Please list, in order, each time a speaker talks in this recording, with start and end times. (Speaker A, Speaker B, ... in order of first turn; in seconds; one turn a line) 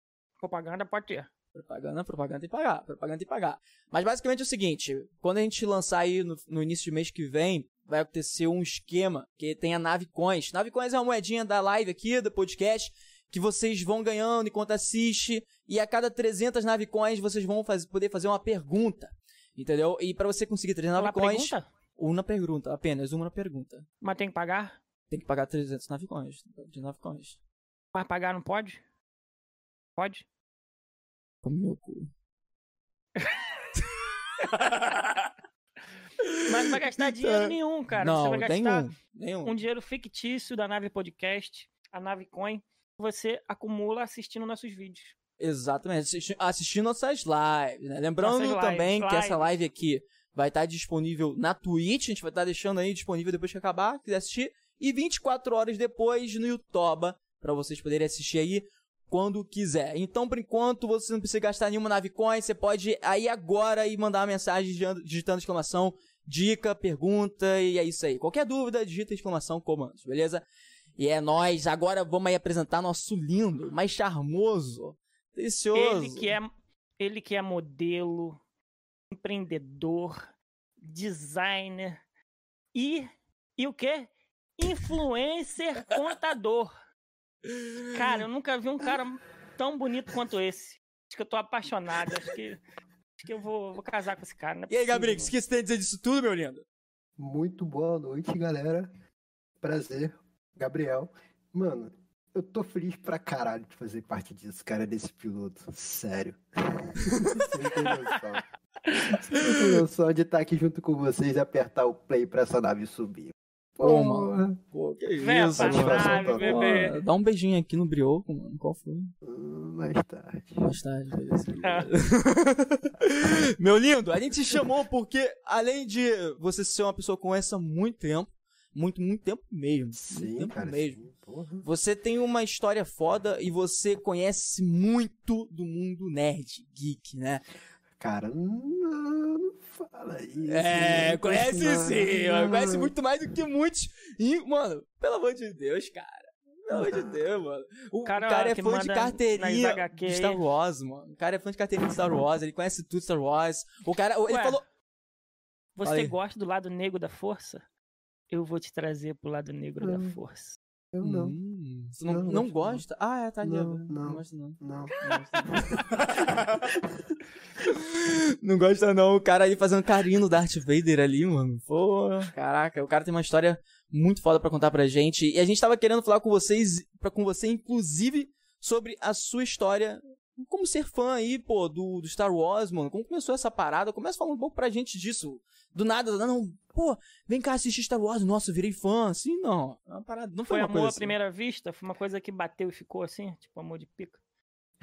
Speaker A: 0.4-1.3
Speaker B: 1.5-23.9
Speaker A: 21.0-21.7
Speaker A: 24.0-24.8
Speaker B: 25.1-27.4
Speaker A: 27.9-28.8
Speaker A: 30.0-30.2
Speaker B: 31.4-32.1
Speaker B: 34.4-35.2
Speaker B: 36.2-39.6
Speaker A: 36.5-38.9
Speaker A: 39.5-45.1
Speaker B: 45.4-70.4
Speaker A: 48.2-49.5
Speaker B: 71.0-76.4
Speaker A: 75.7-78.4
Speaker A: 79.1-80.3
Speaker A: 80.8-82.0
Speaker A: 82.8-86.7
Speaker B: 87.5-88.2
Speaker A: 87.9-92.6
Speaker A: 93.2-95.3
Speaker B: 94.7-96.6
Speaker C: 97.2-98.9
Speaker C: 99.6-108.5
Speaker B: 107.0-107.5
Speaker C: 109.1-114.6
Speaker B: 113.8-119.1
Speaker A: 115.2-117.0
Speaker C: 115.6-116.6
Speaker C: 119.2-120.7
Speaker B: 120.6-131.0
Speaker C: 129.9-131.7
Speaker B: 131.6-137.4
Speaker C: 138.0-142.9
Speaker B: 140.5-154.6
Speaker C: 146.7-147.2
Speaker A: 148.1-150.4
Speaker A: 154.3-154.6
Speaker A: 155.8-157.6
Speaker B: 155.8-156.2
Speaker A: 158.3-160.6
Speaker C: 159.8-160.2
Speaker C: 160.9-161.4
Speaker B: 161.0-166.6
Speaker C: 162.1-162.8
Speaker C: 163.4-165.0
Speaker C: 166.6-167.0
Speaker B: 167.6-191.1
Speaker A: 190.5-194.2